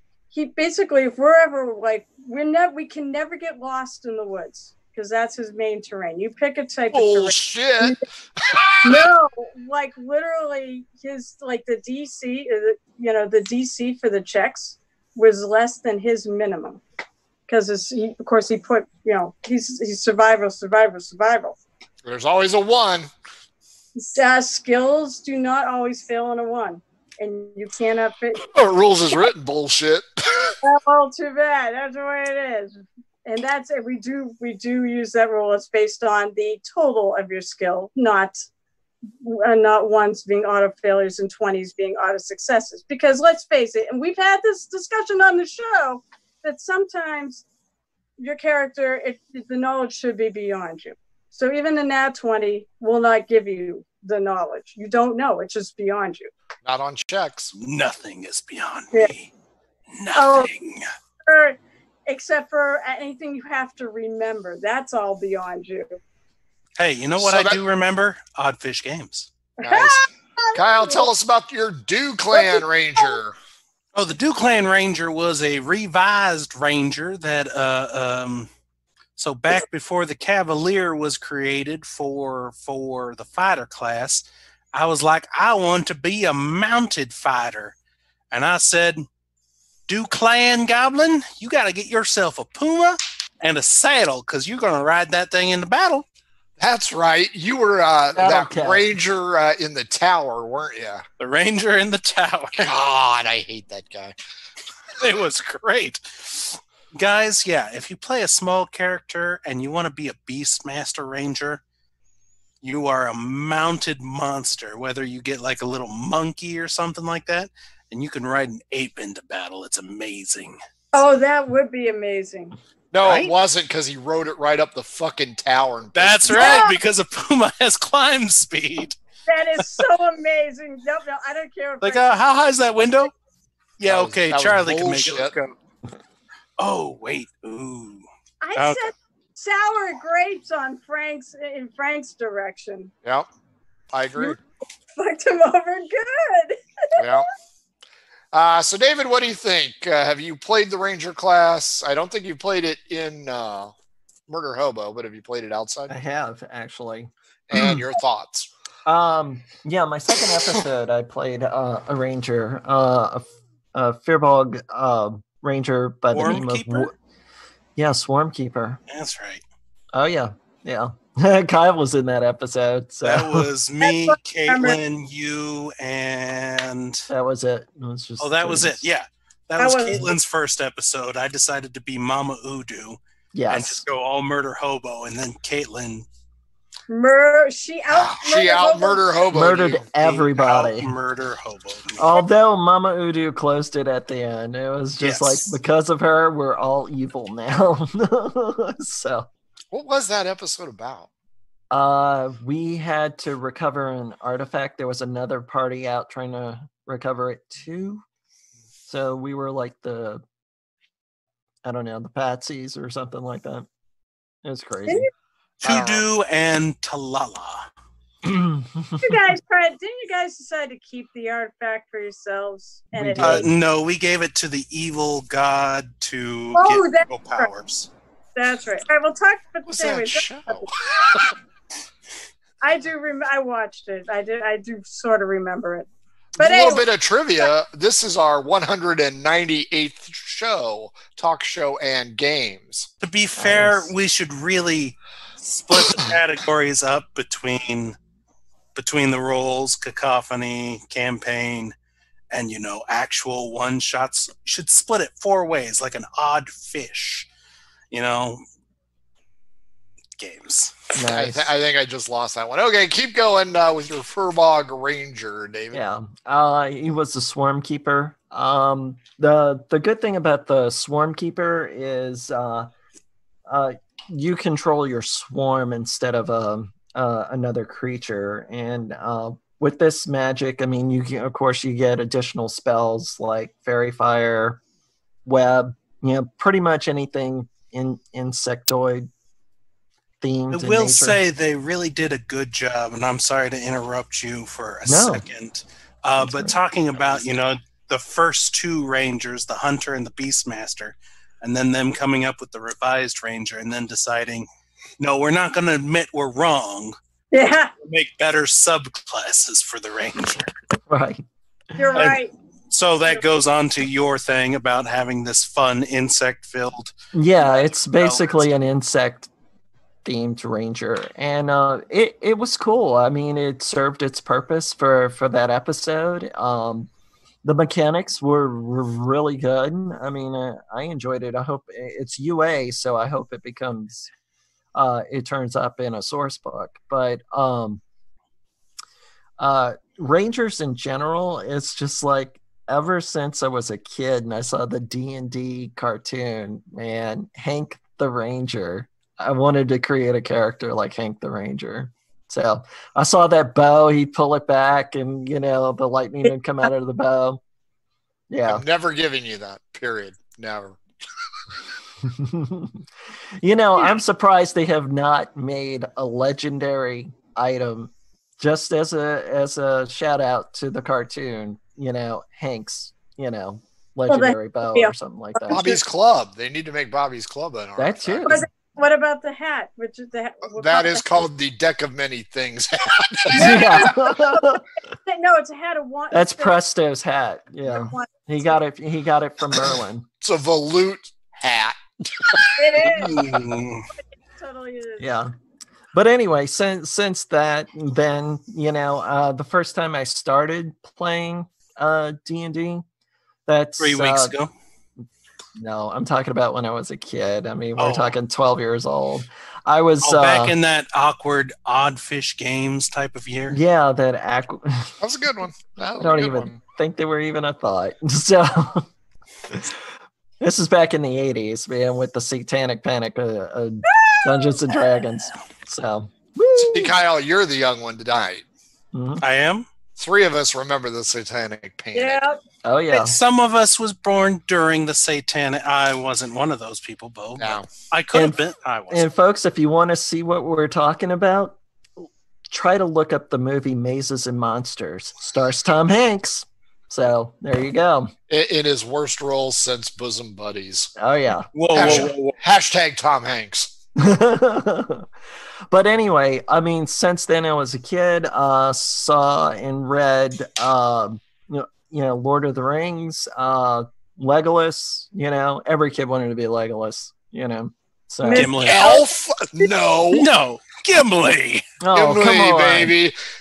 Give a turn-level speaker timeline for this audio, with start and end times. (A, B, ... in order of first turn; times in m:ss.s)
0:00.3-0:08.0 A
0:06.9-0:09.1 B
0:08.8-0:16.8 A
0:17.5-0:21.6 A
0:22.0-0:23.1 B
0:24.0-0:28.5 A
0:28.5-0:30.6 B
0:30.6-0:38.4 A
0:39.2-0:47.4 A
0:48.2-0:56.3 A
0:56.6-0:57.5 B
0:57.6-0:59.3 C
1:00.0-1:00.9 C
1:00.1-1:00.5 A
1:01.3-1:06.0 A
1:06.8-1:09.3 C
1:07.2-1:07.6 B
1:09.6-1:10.0 B
1:09.6-1:11.1 A
1:10.5-1:13.3 B
1:12.3-1:13.2 A
1:13.9-1:18.5 C
1:19.2-1:27.7 C
1:28.3-1:29.0 C
1:29.9-1:36.0 C
1:36.6-1:41.0 B
1:38.2-1:38.8 D
1:41.2-1:42.6 C
1:42.6-1:44.1 B
1:45.0-1:51.6 C
1:52.6-2:00.6 C
2:00.9-2:02.6 A
2:02.9-2:06.6 B
2:03.0-2:03.3 C
2:05.9-2:09.0 C
2:06.3-2:06.8 A
2:09.3-2:12.1 A
2:11.8-2:13.1 C
2:13.8-2:15.5 C
2:13.8-2:15.3 B
2:16.6-2:18.0 C
2:18.4-2:22.9 A
2:18.6-2:18.8 C
2:23.9-2:24.4 B
2:25.0-2:27.2 A
2:27.0-2:27.3 B
2:28.3-2:33.7 B
2:34.3-2:35.9 B
2:35.9-2:37.8 D
2:37.5-2:38.5 B
2:38.8-2:46.9 D
2:46.1-2:46.9 C
2:47.8-2:48.8 D
2:48.9-2:49.4 C
2:49.9-2:53.5 D
2:53.0-2:57.1 C
2:53.8-2:54.8 A
2:57.1-2:58.8 D
2:58.2-3:06.0 C
2:59.6-3:00.1 A
3:03.3-3:03.8 D
3:06.9-3:09.1 A
3:07.9-3:09.8 B
3:09.3-3:10.9 D
3:10.0-3:12.2 C
3:12.0-3:19.3 D
3:15.0-3:15.5 C
3:19.7-3:21.1 B
3:21.7-3:28.0 D
3:28.9-3:30.2 D
3:31.6-3:33.7 D
3:34.4-3:35.1 D
3:35.6-3:36.0 B
3:35.6-3:37.7 C
3:38.2-3:39.2 D
3:39.0-3:43.4 A
3:42.9-3:43.5 D
3:43.2-3:47.9 C
3:46.5-3:47.5 A
3:48.4-3:50.7 A
3:49.7-3:51.3 B
3:52.6-3:55.9 A
3:56.4-4:02.9 B
3:56.4-3:56.9 A
4:03.0-4:08.0 C
4:03.4-4:03.9 D
4:08.7-4:11.7 C
4:12.3-4:17.3 C
4:17.9-4:18.4 C
4:20.2-4:20.8 C
4:20.9-4:21.5 D
4:21.0-4:25.8 B
4:25.7-4:32.7 D
4:33.5-4:44.6 D
4:45.2-4:49.1 D
4:50.2-4:51.2 D
4:50.5-5:04.5 C
4:54.8-4:55.2 D
4:56.2-4:57.2 D
5:05.0-5:07.0 C
5:07.3-5:07.7 A
5:07.8-5:10.5 C
5:10.9-5:11.2 D
5:11.8-5:12.3 A
5:11.9-5:18.4 C
5:17.1-5:19.3 D
5:20.0-5:26.9 D
5:27.4-5:34.1 D
5:34.7-5:37.8 D
5:39.4-5:57.4 D
5:58.3-5:58.6 D
5:58.5-6:00.8 B
6:02.0-6:02.8 D
6:03.4-6:15.6 D
6:14.1-6:15.8 A
6:15.5-6:18.3 B
6:17.8-6:18.5 D
6:18.2-6:21.0 A
6:20.5-6:23.8 B
6:23.3-6:24.6 D
6:23.3-6:26.6 A
6:26.1-6:30.0 D
6:27.7-6:28.1 A
6:30.2-6:33.5 B
6:32.6-6:33.4 A
6:32.8-6:33.8 C
6:34.3-6:35.2 A
6:35.0-6:35.3 D
6:35.9-6:42.8 D
6:43.5-6:44.3 D
6:43.8-6:44.5 C
6:45.6-6:50.5 D
6:47.8-6:48.2 C
6:50.0-6:53.6 C
6:53.5-6:54.9 D
6:55.0-6:56.5 B
6:56.0-6:58.9 D
6:59.5-6:59.8 D
7:00.4-7:06.9 D
7:03.9-7:04.9 A
7:06.6-7:08.4 B
7:08.9-7:09.2 D
7:09.2-7:09.7 C
7:10.0-7:12.2 B
7:11.9-7:12.4 A
7:12.6-7:13.2 D
7:12.9-7:19.1 C
7:17.4-7:17.7 B
7:18.1-7:18.4 D
7:18.9-7:28.1 D
7:28.3-7:30.9 B
7:31.0-7:32.1 D
7:31.5-7:32.3 C
7:31.7-7:33.7 B
7:34.0-7:35.1 D
7:35.7-7:48.5 D
7:48.2-7:49.1 A
7:48.3-7:49.0 C
7:48.6-7:50.3 B
7:50.1-7:51.6 C
7:51.8-7:52.9 D
7:51.9-7:53.1 B